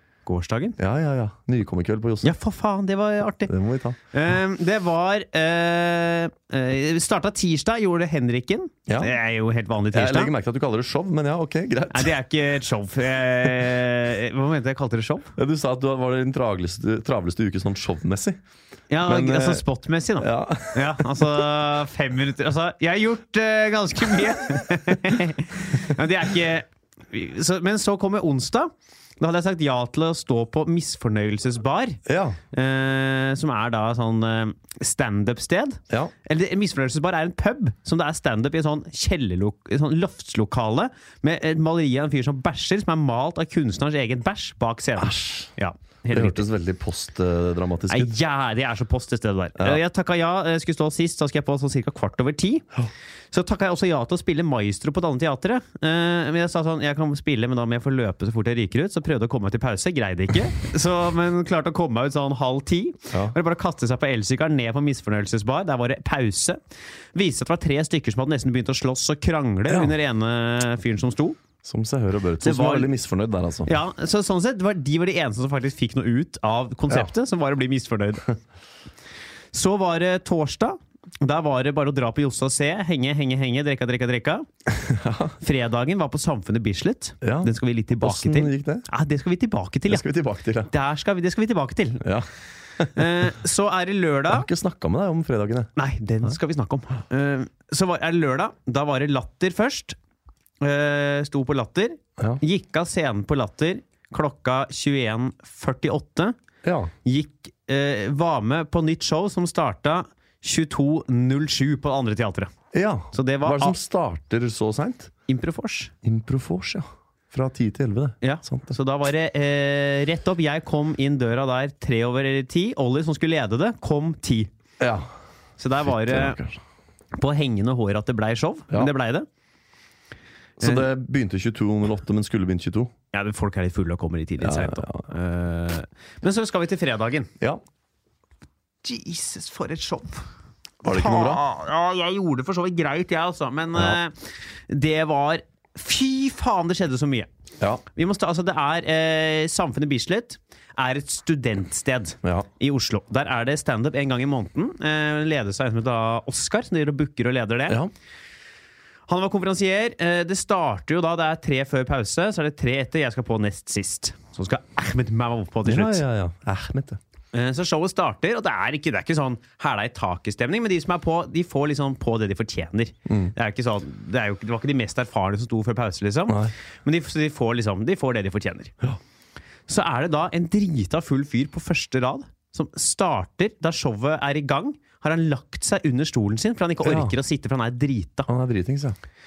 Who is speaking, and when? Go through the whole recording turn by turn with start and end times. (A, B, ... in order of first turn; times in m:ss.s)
0:00.2-0:00.8 A
0:00.8-0:02.3 B
0:02.2-0:03.5 A
0:03.5-0:04.0 B
0:04.1-0:10.3 A
0:08.9-0:09.1 B
0:09.9-0:12.1 B
0:11.9-0:15.3 A
0:15.4-0:18.4 B
0:18.9-0:32.0 A
0:19.0-0:19.6 B
0:20.2-0:21.4 B
0:32.0-0:32.4 B
0:32.5-0:46.4 A
0:45.0-0:45.5 B
0:46.1-0:48.1 B
0:47.9-0:52.6 A
0:53.3-1:06.6 A
1:07.1-1:11.4 A
1:09.7-1:09.9 B
1:11.6-1:13.7 B
1:12.4-1:12.9 A
1:13.6-1:18.3 A
1:19.5-1:24.4 A
1:24.7-1:25.3 B
1:25.4-1:30.0 A
1:27.2-1:28.8 B
1:29.9-1:30.7 B
1:30.7-1:32.1 A
1:32.0-1:33.1 B
1:32.9-1:34.5 A
1:34.3-1:35.7 B
1:35.8-1:40.0 A
1:40.6-1:46.4 A
1:46.6-1:46.9 B
1:47.0-1:52.5 A
1:52.7-1:55.1 B
1:53.1-1:53.8 A
1:55.3-1:55.9 A
1:56.0-1:58.7 B
1:58.2-2:04.5 A
2:04.8-2:05.1 B
2:05.6-2:06.4 A
2:05.8-2:06.6 B
2:07.1-2:09.3 A
2:10.6-2:12.9 B
2:10.6-2:10.8 A
2:13.1-2:17.3 A
2:14.4-2:15.0 B
2:18.8-2:20.3 A
2:20.8-2:21.4 B
2:20.8-2:27.3 A
2:27.9-2:37.8 A
2:39.1-2:46.0 A
2:45.6-2:47.0 B
2:47.3-2:58.7 A
2:53.1-2:53.3 B
2:56.3-2:56.5 B
2:59.7-3:08.3 A
3:06.8-3:07.1 B
3:08.3-3:09.0 B